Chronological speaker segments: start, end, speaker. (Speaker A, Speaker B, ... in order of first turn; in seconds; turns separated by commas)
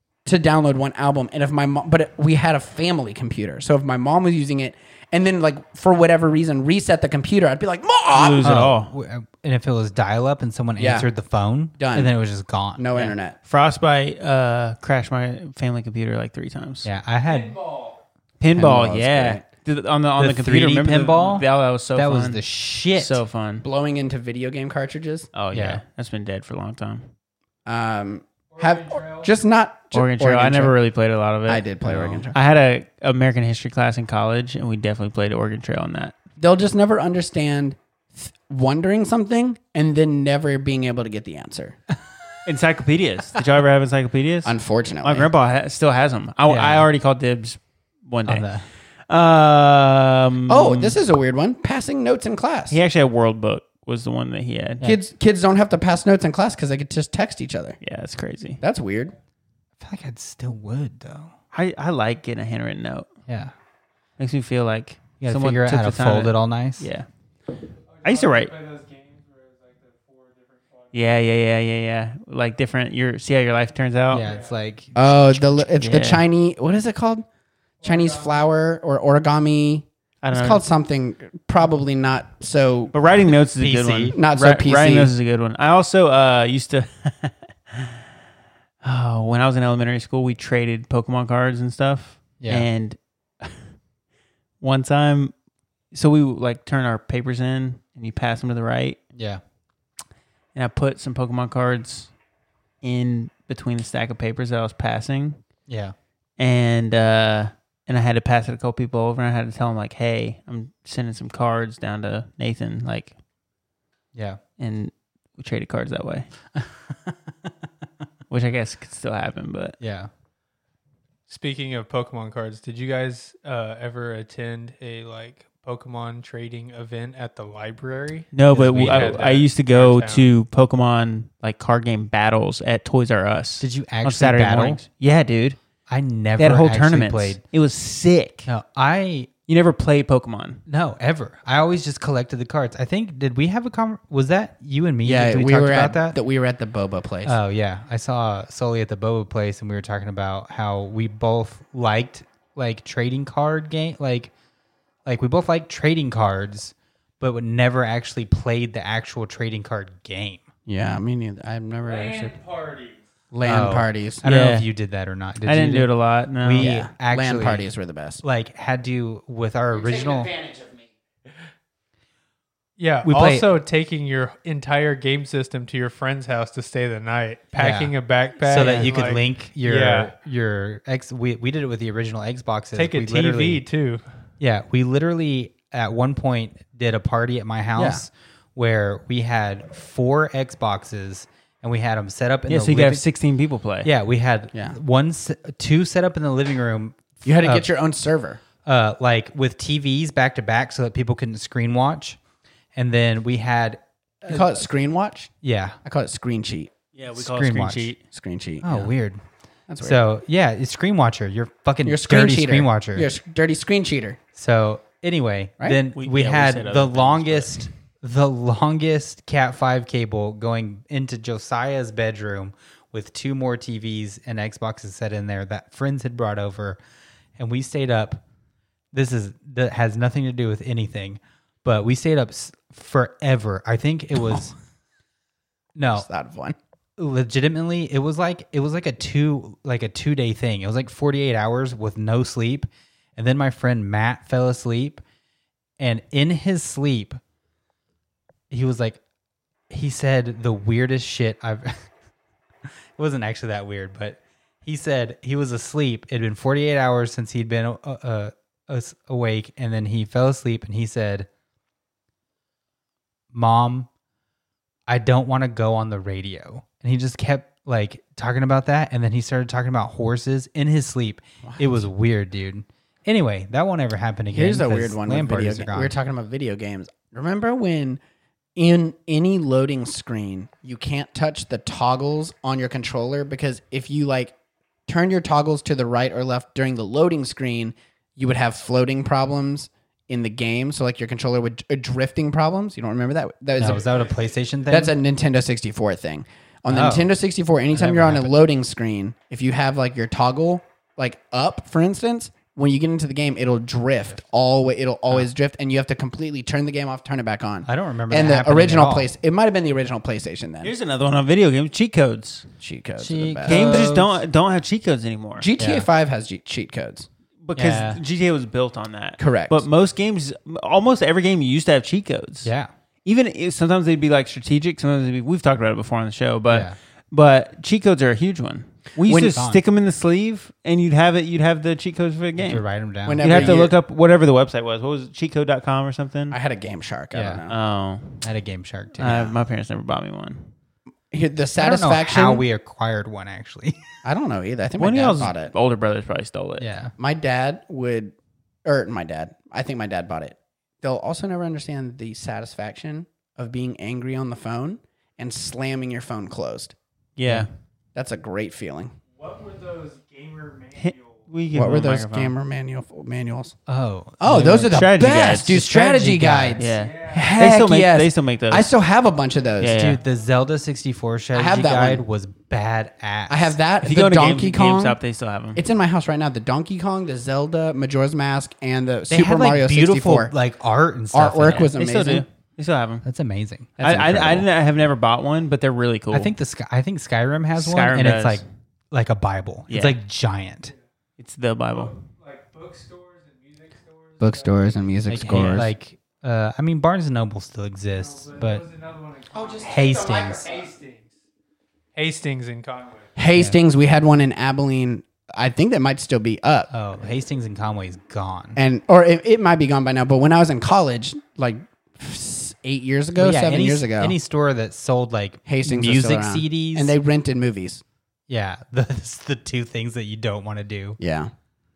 Speaker A: 0.2-8.6, Speaker B: 8.1-8.9, Speaker C: 8.4-12.9, Speaker A: 10.8-11.1, Speaker A: 11.8-12.1, Speaker A: 12.8-13.3, Speaker B: 12.9-16.9, Speaker C: 16.8-17.6, Speaker D: 17.3-18.0, Speaker B: 18.4-22.4, Speaker A: 18.5-19.4, Speaker C: 20.2-23.2, Speaker B: 22.9-23.6, Speaker A: 23.6-25.3, Speaker B: 25.3-27.1, Speaker C: 25.5-25.8, Speaker A: 27.6-30.7, Speaker D: 28.5-29.3, Speaker B: 29.9-36.1, Speaker A: 31.5-32.4, Speaker A: 36.4-41.8, Speaker B: 42.4-48.5, Speaker A: 44.4-45.3, Speaker C: 46.5-46.9, Speaker C: 48.2-48.6, Speaker B: 49.1-51.0, Speaker A: 50.5-52.8, Speaker B: 52.7-54.8, Speaker A: 54.8-57.8, Speaker B: 57.8-58.6, Speaker A: 58.6-59.1, Speaker C: 59.8-61.3, Speaker B: 61.5-63.1, Speaker C: 63.3-63.5, Speaker B: 64.2-67.1, Speaker C: 65.2-66.9, Speaker D: 67.9-70.9, Speaker B: 68.0-68.5, Speaker B: 70.9-74.3, Speaker C: 74.1-75.6, Speaker D: 74.2-74.5, Speaker A: 74.9-77.2, Speaker B: 75.8-76.2, Speaker A: 77.8-82.9, Speaker D: 77.8-78.2, Speaker B: 80.2-80.6, Speaker B: 82.9-88.0, Speaker C: 83.6-84.2, Speaker A: 84.1-85.1, Speaker B: 88.8-93.6, Speaker C: 92.4-92.7, Speaker B: 94.6-95.3, Speaker B: 95.9-99.0, Speaker C: 99.1-99.4, Speaker B: 100.5-102.1, Speaker B: 102.8-105.4, Speaker C: 105.7-105.9, Speaker B: 106.4-113.1, Speaker C: 114.1-114.4, Speaker B: 114.6-116.3, Speaker C: 116.5-117.5, Speaker B: 118.3-119.8, Speaker C: 119.8-120.1, Speaker D: 121.3-130.3, Speaker B: 128.3-135.6, Speaker C: 128.5-129.2, Speaker C: 133.6-134.8, Speaker C: 135.9-137.4, Speaker B: 136.4-138.5, Speaker C: 138.4-139.3, Speaker B: 139.5-140.6, Speaker C: 140.7-146.2, Speaker A: 145.0-147.4, Speaker C: 147.2-154.3, Speaker C: 155.1-160.4, Speaker A: 160.7-162.4, Speaker D: 162.3-162.9, Speaker A: 163.3-164.2, Speaker C: 163.4-165.9, Speaker B: 164.2-164.7, Speaker B: 165.4-166.7, Speaker C: 166.4-167.7, Speaker A: 166.6-168.2, Speaker C: 168.2-170.3, Speaker D: 172.8-180.1, Speaker C: 173.0-173.5, Speaker C: 177.6-177.9, Speaker C: 178.4-183.6, Speaker D: 182.7-184.0, Speaker C: 184.4-193.0, Speaker B: 192.5-193.9, Speaker C: 193.8-197.7, Speaker A: 197.2-198.4, Speaker C: 198.6-202.2, Speaker C: 202.8-204.6, Speaker A: 204.2-205.3, Speaker C: 205.4-205.8, Speaker A: 205.8-206.7, Speaker B: 206.9-208.0, Speaker C: 207.1-207.9, Speaker A: 208.1-208.9, Speaker C: 208.6-209.2, Speaker A: 209.7-210.0, Speaker C: 209.8-213.1, Speaker A: 211.8-214.2, Speaker C: 214.3-226.8, Speaker B: 215.9-217.6, Speaker C: 227.4-228.2, Speaker C: 228.9-234.5, Speaker C: 235.8-236.1, Speaker A: 235.9-236.6, Speaker C: 237.0-245.0, Speaker C: 245.8-247.2, Speaker C: 248.5-249.0, Speaker C: 249.7-251.9, Speaker C: 253.0-261.3, Speaker C: 263.3-263.9, Speaker C: 264.9-275.9, Speaker A: 271.4-271.9, Speaker A: 274.3-278.0, Speaker A: 278.6-284.3, Speaker A: 284.9-293.9, Speaker C: 293.6-294.9, Speaker A: 294.7-310.7, Speaker C: 296.7-297.1, Speaker C: 297.7-298.4, Speaker C: 307.6-309.1, Speaker B: 310.6-312.4, Speaker A: 312.6-313.9, Speaker C: 313.0-314.2, Speaker B: 313.4-315.5, Speaker A: 315.4-317.1, Speaker C: 315.6-315.9, Speaker B: 317.4-322.5, Speaker C: 317.5-318.0, Speaker A: 319.2-319.6, Speaker C: 322.4-322.7, Speaker B: 323.0-332.6, Speaker C: 326.5-326.7, Speaker C: 329.0-329.6, Speaker C: 332.4-333.6, Speaker A: 333.1-333.7, Speaker B: 333.2-336.4, Speaker A: 336.3-337.6, Speaker C: 337.1-337.4, Speaker B: 337.5-338.2, Speaker C: 338.2-339.3, Speaker B: 339.0-340.5, Speaker A: 341.1-342.4, Speaker C: 341.6-343.8, Speaker A: 344.0-345.5, Speaker B: 344.8-346.6, Speaker C: 346.6-346.9, Speaker A: 347.0-356.7, Speaker B: 357.2-357.5, Speaker A: 357.9-358.9, Speaker D: 359.2-361.2, Speaker B: 360.8-362.3, Speaker A: 361.5-363.6, Speaker C: 363.7-366.7, Speaker A: 364.2-369.8, Speaker B: 364.7-365.6, Speaker B: 366.6-368.7, Speaker D: 366.8-367.2, Speaker B: 369.6-370.0, Speaker C: 369.7-373.6, Speaker A: 371.3-372.0, Speaker A: 373.3-375.0, Speaker B: 373.8-375.6, Speaker A: 375.5-380.3, Speaker C: 379.1-381.7, Speaker A: 381.1-382.2, Speaker B: 381.8-383.0, Speaker C: 383.0-383.7, Speaker A: 383.8-384.5, Speaker B: 383.8-386.3, Speaker C: 386.1-390.7, Speaker B: 387.6-388.4, Speaker B: 389.7-389.9, Speaker B: 391.2-391.9, Speaker D: 391.7-394.7, Speaker A: 394.2-395.7, Speaker C: 395.1-398.6, Speaker B: 395.2-395.7, Speaker D: 397.9-401.1, Speaker A: 399.3-400.6, Speaker C: 399.6-400.5, Speaker D: 401.9-403.1, Speaker A: 403.1-406.7, Speaker C: 406.7-408.6, Speaker A: 408.6-414.1, Speaker C: 413.2-416.9, Speaker A: 415.4-417.8, Speaker C: 418.3-421.0, Speaker A: 421.0-421.3